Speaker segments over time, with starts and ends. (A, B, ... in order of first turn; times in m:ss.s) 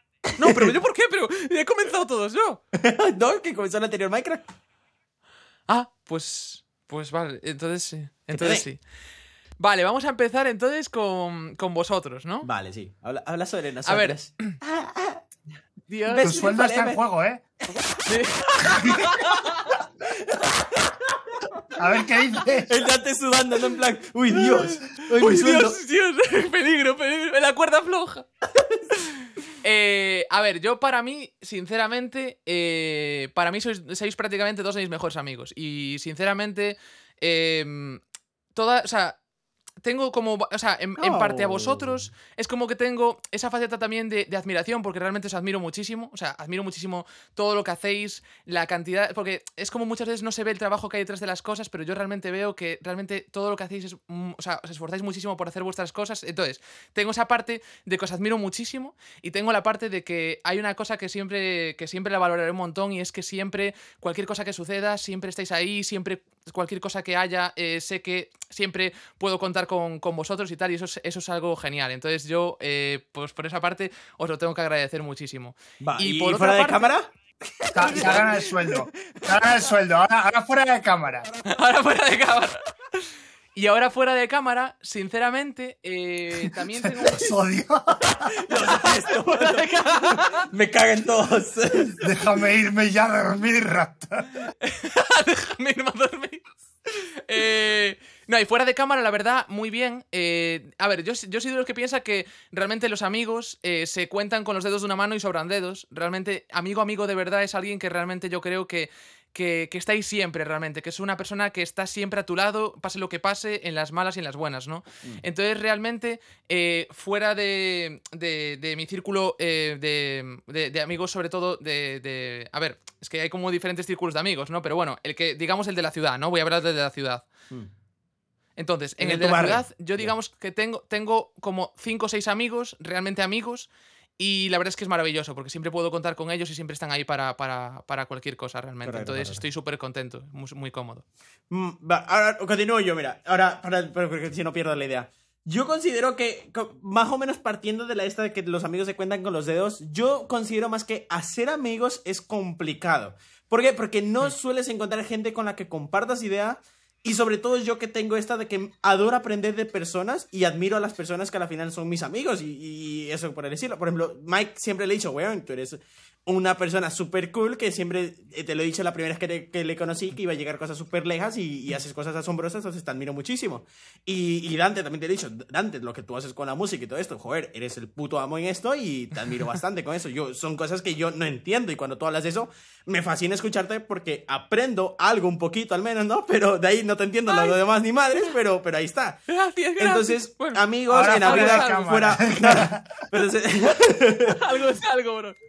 0:00.3-0:00.7 A
0:00.4-0:02.6 B
0:02.7-0:04.5 A
0:05.7-0:08.8 B
0:08.3-0:08.7 A
0:09.6-0:12.5 B
0:12.4-0:15.2 A
0:13.9-0:14.6 B
0:15.9-0:16.4 B
0:16.1-0:17.0 A
0:16.2-0:17.4 C
0:18.1-0:19.8 B
0:20.1-0:21.0 A
0:21.8-0:22.7 C
0:22.7-0:25.8 A
0:24.3-0:28.2 B
0:29.6-0:38.0 B
0:38.6-0:39.2 B
0:39.8-1:16.9 B
0:41.0-0:42.1 A
1:15.8-1:17.1 A
1:17.6-1:19.3 A
1:17.7-1:21.3 C
1:17.9-1:18.3 B
1:21.4-1:22.6 B
1:23.6-1:27.4 B
1:26.4-1:28.4 C
1:28.4-1:32.0 A
1:28.6-1:30.5 B
1:32.0-1:34.4 C
1:34.6-2:07.3 B
2:08.6-2:21.0 B
2:09.0-2:10.1 A
2:18.8-2:19.4 A
2:21.5-3:09.2 A
3:07.3-3:07.6 B
3:09.3-3:10.6 B
3:09.8-3:14.4 A
3:10.9-3:13.1 C
3:11.2-3:11.9 B
3:14.3-3:15.4 B